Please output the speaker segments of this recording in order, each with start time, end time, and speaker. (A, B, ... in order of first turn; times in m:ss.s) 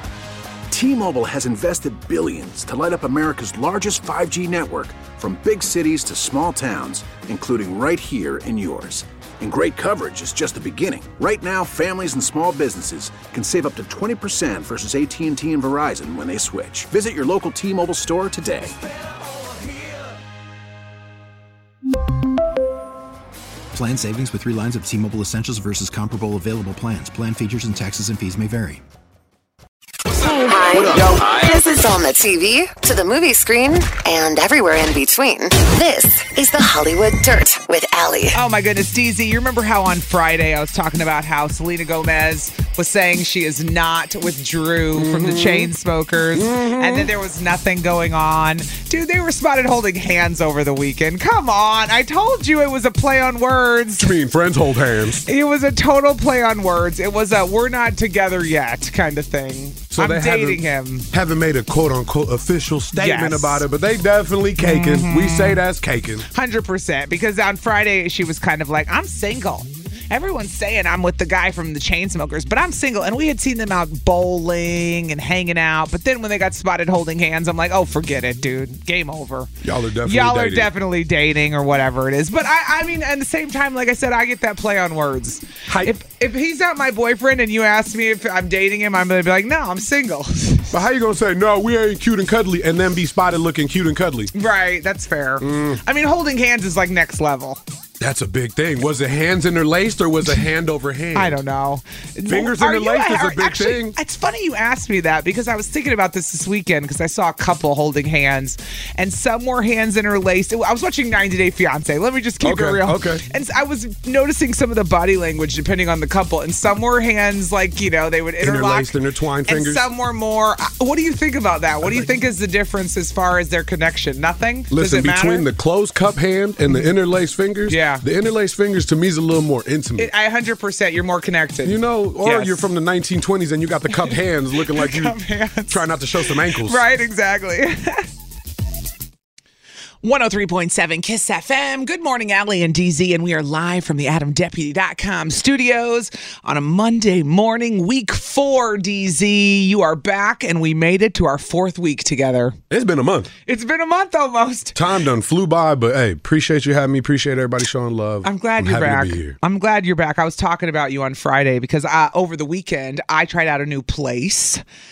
0:00.7-0:18.8 A
0:23.7-0:28.8 B
0:30.4-0:38.4 C
0:38.3-0:54.1 D
0:45.0-0:45.7 E
0:46.3-0:47.1 E
0:54.0-0:55.3 E
0:55.3-1:01.1 D
0:59.9-1:06.3 E
1:03.0-1:03.6 D
1:04.6-1:05.6 D
1:06.3-1:19.5 D
1:19.6-1:20.7 E
1:20.0-1:30.7 D
1:30.7-1:34.3 E
1:34.3-1:37.6 D
1:35.4-1:35.8 E
1:38.0-1:41.4 E
1:41.2-1:58.9 D
1:42.3-1:44.0 E
1:52.4-1:53.2 E
1:58.4-1:59.9 E
1:59.5-2:05.5 D
2:01.8-2:02.1 E
2:04.7-2:10.1 E
2:07.7-2:08.0 D
2:10.0-2:12.7 D
2:11.6-2:15.2 E
2:14.0-2:18.1 D
2:15.7-2:16.8 E
2:20.0-2:32.6 D
2:32.7-2:33.3 E
2:33.5-2:34.7 D
2:34.7-2:39.4 E
2:38.2-2:44.6 D